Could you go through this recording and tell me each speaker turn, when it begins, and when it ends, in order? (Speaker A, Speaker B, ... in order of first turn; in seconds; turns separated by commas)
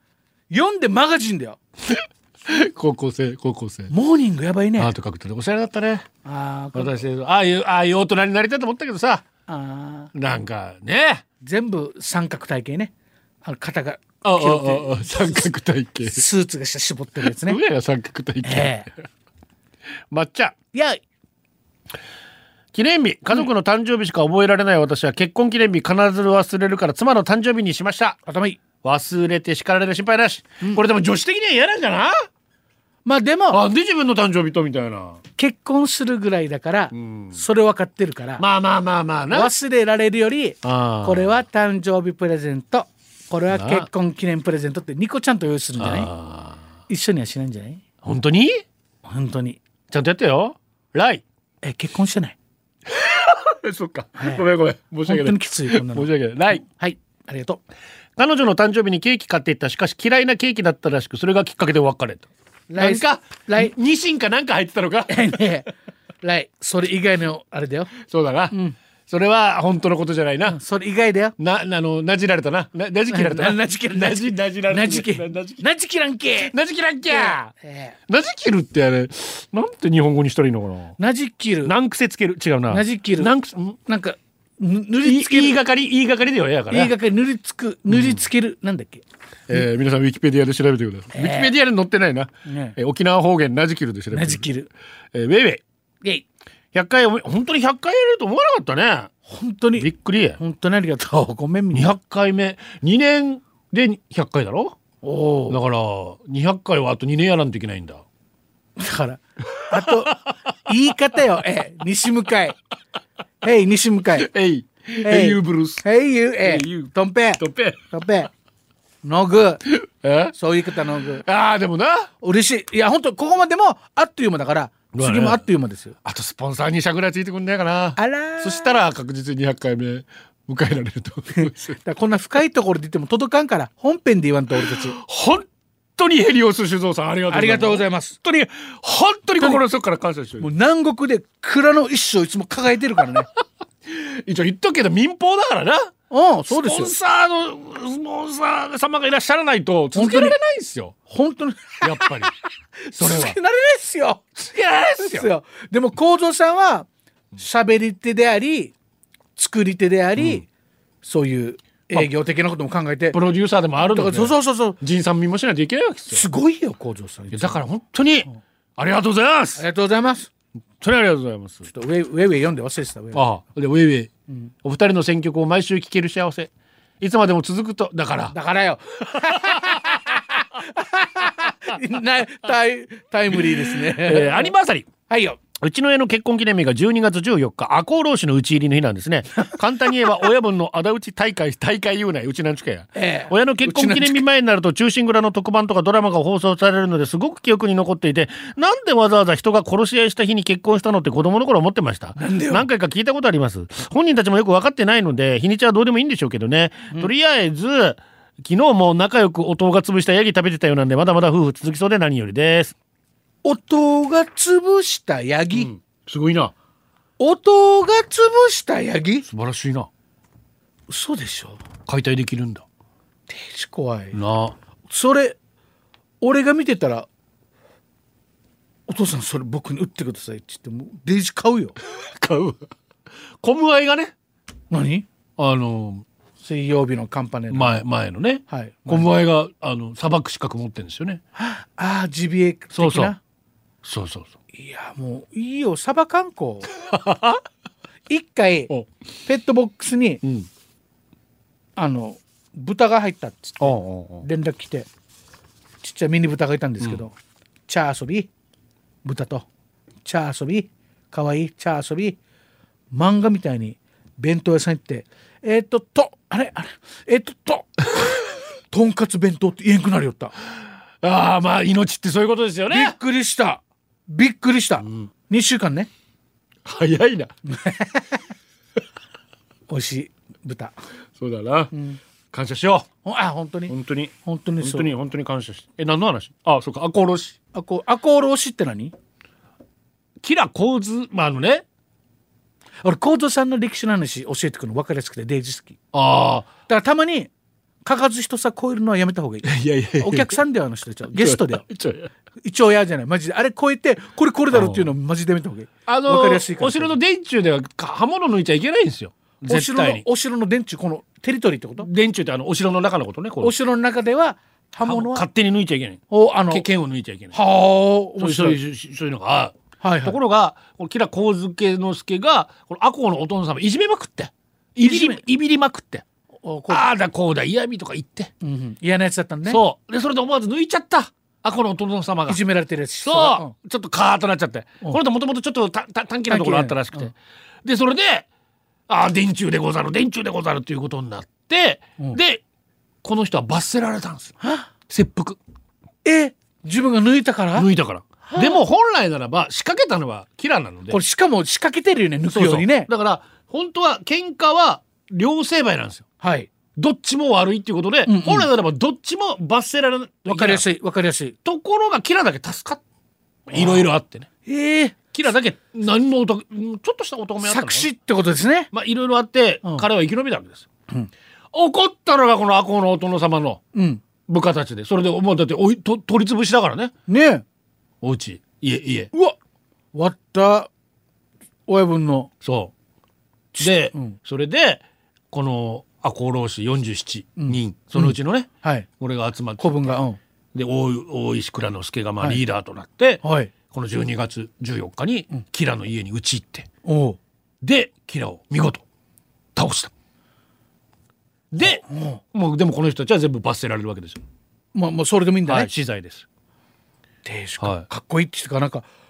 Speaker A: 0.5-1.6, Speaker B: 1.9-3.9, Speaker A: 3.9-4.9, Speaker B: 4.8-6.1, Speaker A: 6.2-7.0, Speaker B: 6.8-9.3, Speaker A: 9.5-10.1, Speaker B: 10.1-11.2, Speaker A: 11.4-12.9, Speaker A: 13.4-15.5, Speaker B: 14.2-16.2, Speaker A: 16.1-17.6, Speaker B: 17.2-19.0, Speaker A: 18.4-18.9, Speaker B: 20.1-20.6, Speaker A: 20.7-21.0, Speaker B: 22.7-28.2, Speaker A: 28.3-28.6, Speaker B: 28.8-32.1, Speaker A: 33.0-33.6, Speaker B: 33.5-35.2, Speaker A: 35.4-38.4, Speaker B: 36.9-37.4, Speaker B: 38.4-39.5, Speaker A: 39.3-46.1, Speaker B: 40.6-41.3, Speaker B: 43.5-43.9, Speaker B: 45.8-46.6, Speaker A: 46.9-47.8, Speaker B: 48.0-48.6, Speaker A: 49.1-49.6, Speaker B: 49.9-51.2, Speaker A: 51.6-52.4, Speaker B: 52.9-56.6, Speaker A: 54.2-54.5, Speaker A: 55.0-57.6, Speaker B: 58.2-65.4, Speaker A: 62.7-63.8, Speaker A: 65.1-65.7, Speaker A: 66.2-67.9, Speaker B: 68.0-68.6, Speaker B: 69.1-70.6, Speaker A: 70.5-71.3, Speaker B: 71.4-75.7, Speaker A: 73.1-76.5, Speaker B: 76.4-77.5, Speaker A: 77.1-78.0, Speaker B: 78.1-81.0, Speaker A: 81.0-81.7, Speaker B: 81.7-83.8, Speaker A: 82.7-83.3, Speaker A: 83.9-85.6, Speaker B: 85.0-86.9, Speaker A: 86.7-89.7, Speaker B: 87.9-88.2, Speaker B: 89.5-94.5, Speaker A: 91.2-91.5, Speaker A: 92.5-92.8, Speaker A: 94.1-94.7, Speaker B: 95.1-95.6, Speaker B: 96.7-99.1, Speaker A: 99.3-101.9, Speaker B: 99.8-100.4, Speaker B: 101.7-104.8, Speaker A: 105.0-105.6, Speaker B: 105.5-108.0, Speaker A: 108.8-112.6, Speaker B: 109.5-110.5, Speaker A: 113.4-114.3, Speaker B: 114.2-115.8, Speaker A: 115.0-118.3, Speaker B: 116.4-117.8, Speaker A: 119.0-119.6, Speaker B: 119.7-122.1, Speaker A: 120.3-121.2, Speaker A: 122.2-126.0, Speaker B: 124.9-125.4, Speaker B: 126.0-131.8, Speaker A: 128.0-128.8, Speaker A: 131.4-135.0, Speaker B: 134.6-140.5, Speaker A: 137.3-138.2, Speaker A: 140.4-143.3, Speaker B: 143.9-145.9, Speaker A: 146.1-146.9, Speaker B: 146.5-150.9, Speaker A: 149.9-150.4, Speaker A: 151.1-152.1, Speaker B: 151.8-152.3, Speaker A: 152.9-158.7, Speaker B: 152.9-153.4, Speaker B: 154.4-155.3, Speaker A: 159.4-160.4, Speaker B: 160.2-160.4, Speaker A: 161.0-163.2, Speaker B: 163.1-166.3, Speaker A: 163.8-164.8, Speaker A: 166.1-167.6, Speaker B: 167.3-169.6, Speaker A: 169.6-170.3, Speaker B: 170.8-171.7, Speaker A: 171.7-173.2, Speaker B: 173.1-174.1, Speaker B: 174.6-178.3, Speaker A: 178.3-184.5, Speaker B: 179.3-179.8, Speaker B: 183.3-184.9, Speaker A: 185.1-185.4, Speaker B: 185.6-212.8, Speaker A: 193.0-194.3, Speaker A: 202.2-202.7, Speaker A: 213.4-215.7, Speaker B: 215.5-216.5, Speaker A: 217.2-219.2, Speaker B: 219.3-219.9, Speaker A: 220.9-221.6, Speaker B: 221.9-222.7, Speaker A: 223.3-224.2, Speaker B: 224.1-224.6, Speaker A: 224.9-225.4, Speaker A: 226.2-227.1, Speaker A: 228.9-231.8, Speaker B: 231.8-232.7, Speaker B: 233.4-234.1, Speaker A: 234.7-235.1, Speaker B: 235.4-236.1, Speaker A: 236.4-237.8, Speaker B: 237.5-241.2, Speaker A: 238.5-239.1, Speaker A: 241.4-243.2, Speaker B: 242.7-243.1, Speaker B: 243.8-244.3, Speaker A: 244.5-246.7, Speaker B: 246.8-247.4, Speaker A: 248.1-248.7, Speaker A: 249.3-250.2, Speaker B: 250.2-250.5, Speaker A: 251.8-254.9, Speaker B: 253.6-254.3, Speaker A: 255.8-257.1, Speaker A: 257.7-258.3, Speaker A: 259.0-259.5, Speaker A: 260.1-262.2, Speaker A: 262.9-270.3, Speaker B: 271.0-272.9, Speaker A: 272.7-275.9, Speaker B: 276.6-277.3, Speaker A: 277.5-278.2, Speaker A: 279.7-280.8, Speaker B: 281.2-281.7, Speaker A: 281.7-282.0, Speaker B: 282.3-282.9, Speaker A: 283.1-283.7, Speaker B: 283.7-287.4, Speaker A: 284.2-284.9, Speaker A: 287.5-288.9, Speaker B: 290.2-291.6, Speaker A: 292.8-295.8, Speaker B: 295.9-296.5, Speaker A: 296.7-297.3, Speaker A: 297.9-301.6, Speaker B: 299.4-300.4, Speaker B: 301.1-302.1, Speaker A: 302.4-307.0, Speaker B: 304.5-304.9, Speaker B: 305.9-310.1, Speaker A: 309.5-311.9, Speaker B: 311.8-313.5, Speaker A: 313.4-315.3, Speaker B: 314.8-317.4, Speaker A: 316.1-316.7, Speaker A: 317.3-318.6, Speaker B: 318.2-326.1, Speaker A: 319.8-320.2, Speaker A: 324.8-325.2, Speaker A: 326.4-326.9, Speaker B: 326.7-328.3, Speaker A: 328.4-329.6, Speaker B: 329.5-332.4, Speaker A: 332.3-333.5, Speaker B: 333.1-338.3, Speaker A: 336.3-337.1, Speaker B: 338.9-342.4, Speaker B: 343.0-344.4, Speaker A: 344.4-344.7, Speaker B: 344.9-345.4, Speaker A: 346.0-347.7, Speaker B: 347.6-351.0, Speaker A: 348.3-348.6, Speaker A: 350.9-352.9, Speaker B: 352.3-356.1, Speaker A: 356.2-356.5, Speaker B: 356.8-360.7, Speaker A: 358.1-358.5, Speaker A: 360.3-361.4, Speaker B: 361.4-362.8, Speaker B: 363.5-364.3, Speaker A: 363.5-363.9, Speaker A: 364.5-365.0, Speaker B: 365.1-367.9, Speaker A: 367.4-368.7, Speaker B: 368.7-370.7, Speaker B: 371.5-373.6, Speaker A: 373.7-374.0, Speaker B: 374.3-376.9, Speaker A: 377.1-377.4, Speaker B: 378.0-379.1, Speaker A: 379.9-380.7, Speaker A: 381.7-382.3, Speaker B: 382.4-382.7, Speaker A: 383.5-384.2, Speaker B: 383.6-390.0, Speaker A: 387.4-388.9, Speaker A: 389.6-390.2, Speaker B: 390.5-396.7, Speaker A: 393.2-393.5, Speaker A: 396.9-397.2, Speaker B: 397.6-398.8, Speaker B: 399.6-399.9, Speaker B: 401.5-401.8, Speaker A: 401.6-402.2, Speaker B: 402.3-404.2, Speaker A: 404.7-405.7, Speaker B: 405.5-406.3, Speaker A: 407.2-408.9, Speaker B: 407.6-407.9